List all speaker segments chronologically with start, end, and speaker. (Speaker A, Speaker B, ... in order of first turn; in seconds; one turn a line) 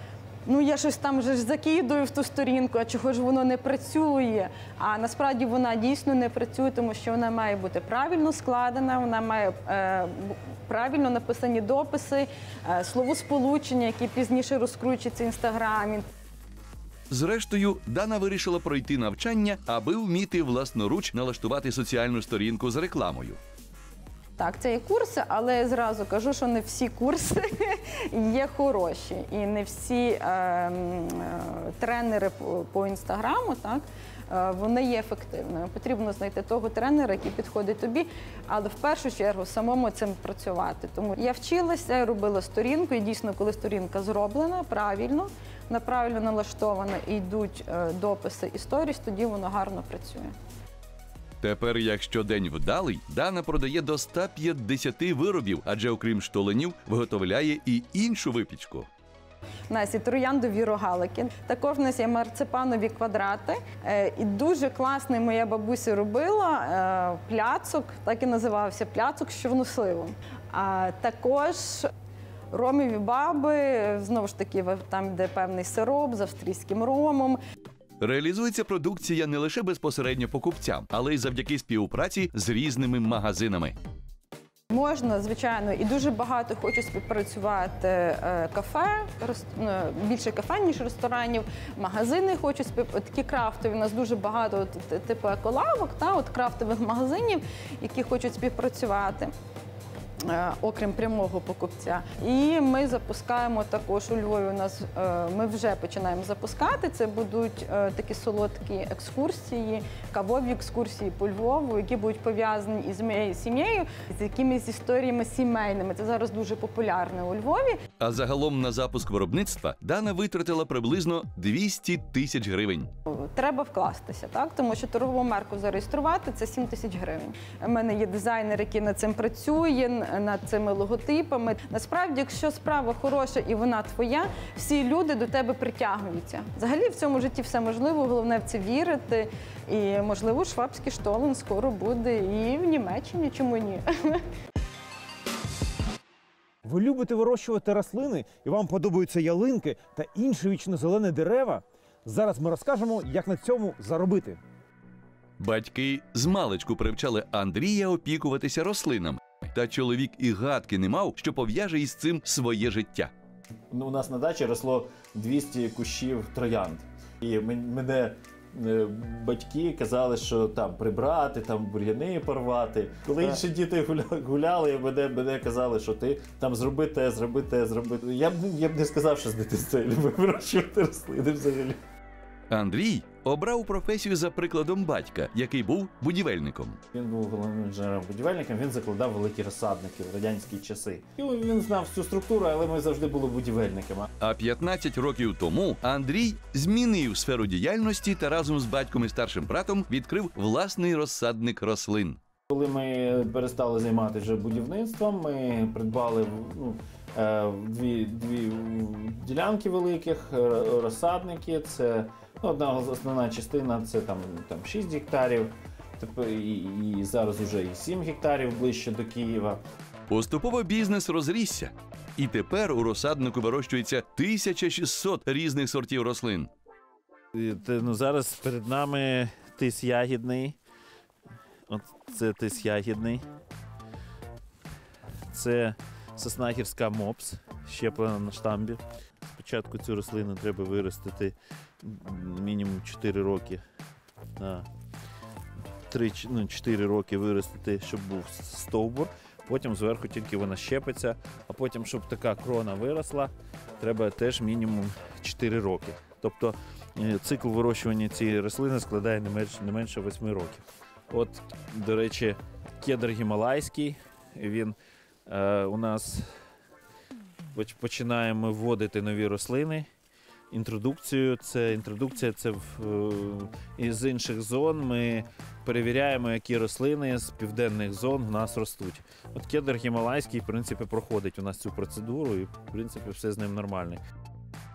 Speaker A: 0.5-16.1
Speaker B: 17.1-23.4
Speaker A: 24.4-50.3
Speaker B: 51.4-58.9
Speaker A: 59.7-71.9
Speaker A: 72.5-77.4
Speaker B: 78.0-83.8
Speaker A: 84.7-99.3
Speaker A: 100.2-117.8
Speaker B: 118.0-122.9
Speaker A: 123.1-144.2
Speaker C: 146.6-154.4
Speaker B: 155.4-163.1
Speaker D: 163.7-181.8
Speaker B: 182.5-186.8
Speaker D: 186.9-194.1
Speaker B: 194.2-202.2
Speaker D: 202.5-219.6
Speaker B: 220.1-226.5
Speaker D: 227.3-230.6
Speaker D: 231.7-233.2
Speaker D: 235.3-243.6
Speaker D: 244.4-244.7
Speaker D: 245.9-264.7
Speaker D: 265.3-266.3
Speaker D: 267.5-269.9
Speaker D: 270.5-284.0